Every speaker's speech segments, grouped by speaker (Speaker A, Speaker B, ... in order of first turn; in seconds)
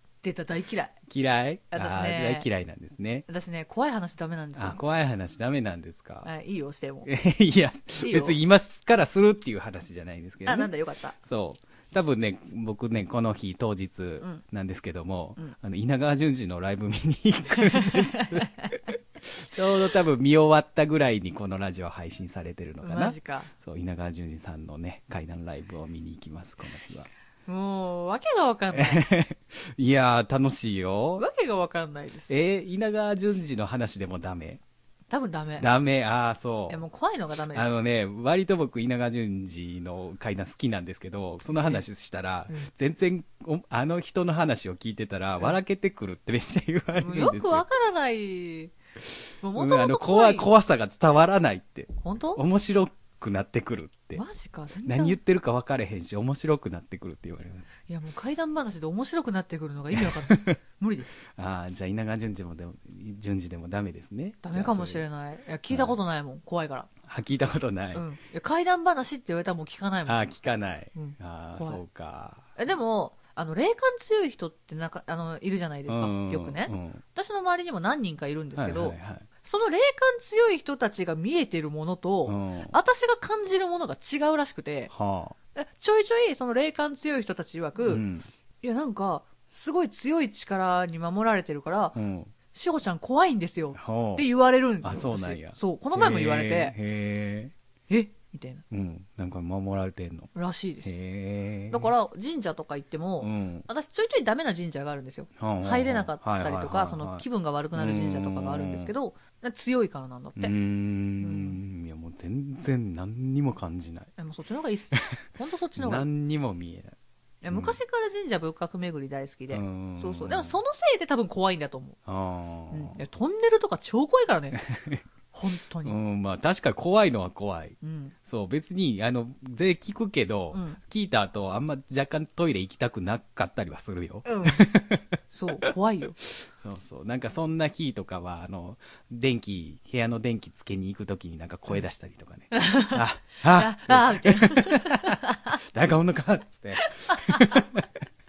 Speaker A: 0.2-0.9, 1.7-2.5, 3.3-4.8, 6.2-7.1, 8.0-8.4, 10.4-11.1, 17.7-18.5, 22.8-23.5, 27.5-29.0, 31.2-32.3, 35.1-35.7, 36.7-37.8, 41.5-41.8, 47.0-48.7, 49.4-50.5, 52.0-52.4, 54.1-55.2, 57.9-61.2, 64.4-66.9, 67.9-70.2, 70.9-71.8, 72.6-84.9, 85.5-88.0, 88.6-92.0, 92.5-96.8, 97.9-98.6, 100.3-101.0, 101.7-110.5, 111.2-111.6, 114.2-116.1, 117.4-122.0, 122.7-124.6, 125.3-126.0, 127.8-128.1, 130.5-130.8, 134.2-134.6, 135.3-136.2, 142.5-145.6, 146.8-147.8
Speaker B: 1.1-3.2, 4.5-6.3, 7.0-27.1, 28.7-31.2, 32.3-34.6, 35.6-36.8, 37.5-47.6, 49.5-54.2, 54.8-57.7, 59.9-60.6, 61.2-65.0, 65.7-65.9, 67.0-68.0, 70.0-72.5, 75.9-77.0, 78.5-79.3, 82.2-82.8, 84.9-85.3, 87.8-88.3, 91.9-92.3, 93.7-94.3, 94.8-97.5, 98.7-100.3, 100.8-101.9, 103.2-103.7, 105.4-108.9, 110.4-114.1, 114.9-115.2, 115.8-117.0, 117.5-117.8, 119.5-120.6, 122.0-123.0, 124.5-125.0, 125.8-147.9